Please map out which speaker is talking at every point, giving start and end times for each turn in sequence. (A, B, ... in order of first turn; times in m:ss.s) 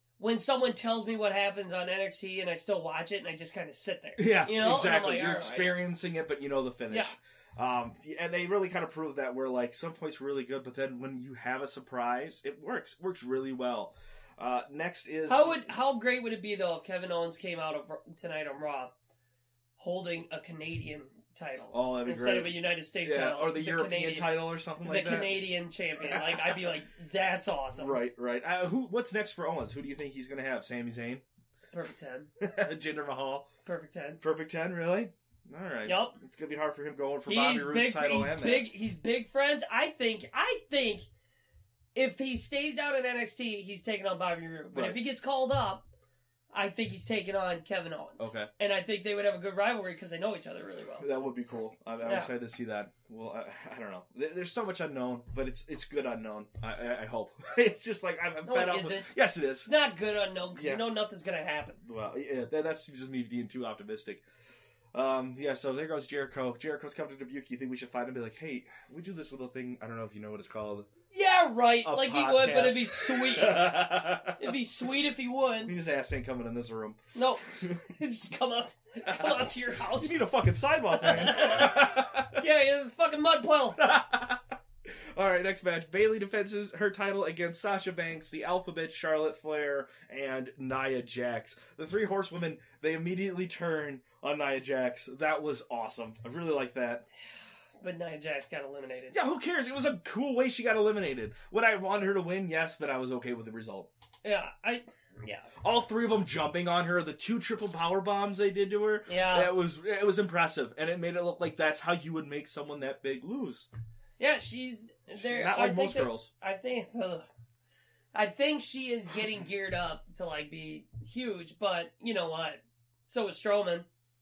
0:00.2-0:05.8 A
0:04.2-0:15.7 B
0:15.3-0:18.9 A
0:19.8-0:28.0 A
0:21.7-0:25.4 B
0:26.1-0:26.6 B
0:27.8-0:31.2 B
0:31.7-0:32.3 A
0:32.4-0:33.5 B
0:33.6-0:34.2 A
0:34.2-0:38.7 B
0:35.8-0:36.2 A
0:37.3-0:41.1 A
0:41.9-0:45.9 A
0:44.7-0:45.0 B
0:46.5-0:51.1 A
0:48.2-0:48.5 B
0:51.0-0:59.7 B
0:52.0-0:52.3 A
0:58.4-0:59.1 A
0:59.6-1:01.8 A
1:00.6-1:00.8 B
1:01.8-1:04.2 B
1:04.9-1:10.9 B
1:11.1-1:13.8 A
1:11.8-1:14.4 B
1:14.4-1:15.7 A
1:15.6-1:17.8 B
1:17.1-1:20.2 A
1:19.0-1:22.4 B
1:21.0-1:23.8 A
1:23.8-1:24.4 B
1:25.1-1:37.0 B
1:37.8-1:39.2 A
1:39.1-1:43.9 B
1:44.2-1:45.5 A
1:45.6-1:53.7 B
1:49.1-1:49.5 A
1:54.2-1:57.2 A
1:55.1-1:56.3 B
1:58.1-2:03.9 A